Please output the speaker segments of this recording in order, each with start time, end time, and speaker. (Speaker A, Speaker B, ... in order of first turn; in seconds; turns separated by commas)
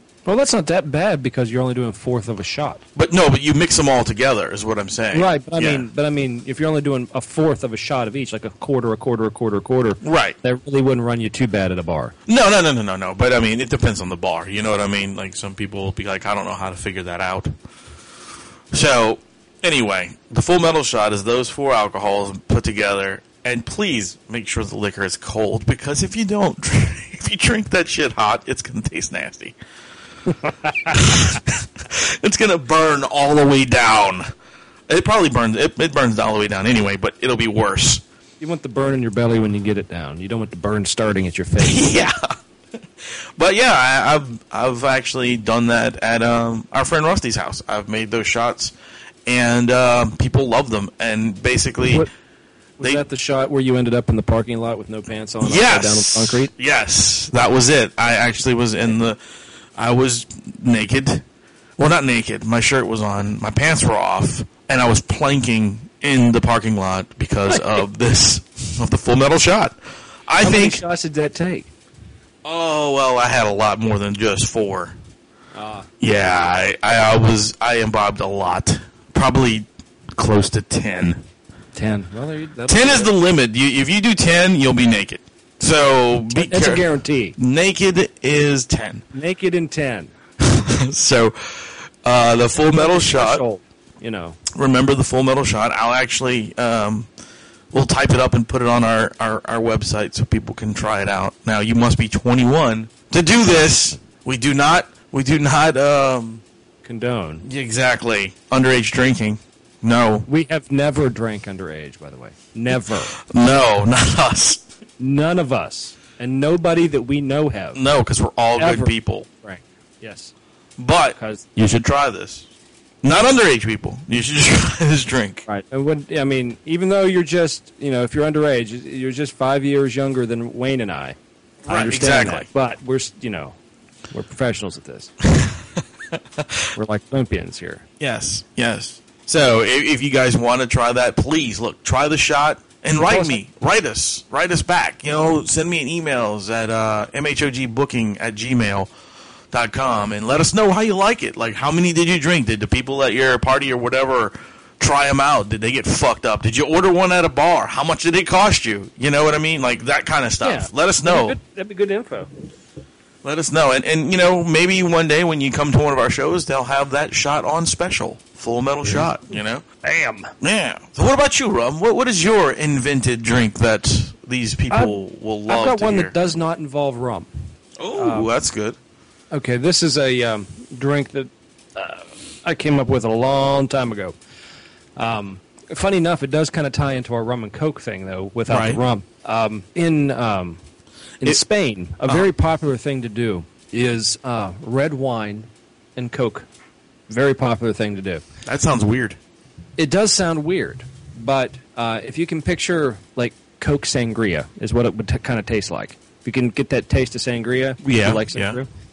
Speaker A: 0.3-2.8, Speaker B: 3.0-5.9, Speaker A: 5.1-12.2, Speaker B: 10.0-10.4, Speaker B: 12.3-17.5, Speaker B: 18.7-29.6, Speaker A: 30.7-30.9, Speaker B: 30.9-34.2, Speaker B: 34.9-38.0, Speaker A: 38.4-42.0, Speaker B: 41.6-42.1, Speaker B: 43.4-48.7, Speaker B: 49.3-52.1, Speaker A: 52.8-56.5, Speaker B: 52.8-53.1, Speaker B: 55.4-59.2, Speaker B: 59.8-61.2, Speaker B: 61.8-70.8, Speaker A: 67.5-67.8, Speaker A: 70.4-71.7, Speaker B: 72.5-75.0, Speaker A: 75.5-75.9, Speaker B: 76.0-81.2, Speaker A: 81.7-83.1, Speaker B: 82.7-86.9, Speaker A: 86.3-87.3, Speaker B: 87.4-89.0, Speaker A: 89.1-90.1, Speaker B: 90.4-93.4, Speaker A: 92.7-94.4, Speaker B: 94.5-97.1, Speaker B: 97.7-106.4, Speaker A: 106.8-107.5, Speaker B: 107.5-110.3, Speaker A: 110.3-113.1, Speaker B: 112.9-114.6, Speaker A: 115.0-117.8, Speaker B: 117.8-119.3, Speaker A: 118.6-120.3, Speaker B: 120.8-122.5, Speaker A: 121.2-121.5, Speaker B: 123.0-125.4, Speaker A: 125.5-133.6, Speaker B: 131.7-132.5, Speaker A: 134.1-135.1, Speaker A: 136.8-137.8, Speaker B: 138.0-148.9, Speaker A: 143.0-143.4, Speaker B: 149.5-161.4, Speaker A: 160.4-162.3, Speaker B: 163.2-169.6, Speaker A: 169.8-170.3, Speaker B: 170.4-176.2, Speaker A: 174.7-174.9, Speaker A: 175.5-177.3, Speaker B: 177.8-178.8, Speaker A: 177.9-178.3, Speaker A: 179.3-184.2, Speaker A: 185.0-190.6, Speaker B: 188.5-188.8, Speaker A: 191.2-196.5, Speaker A: 197.1-198.2, Speaker B: 198.5-199.2, Speaker A: 199.8-208.7, Speaker B: 207.8-208.6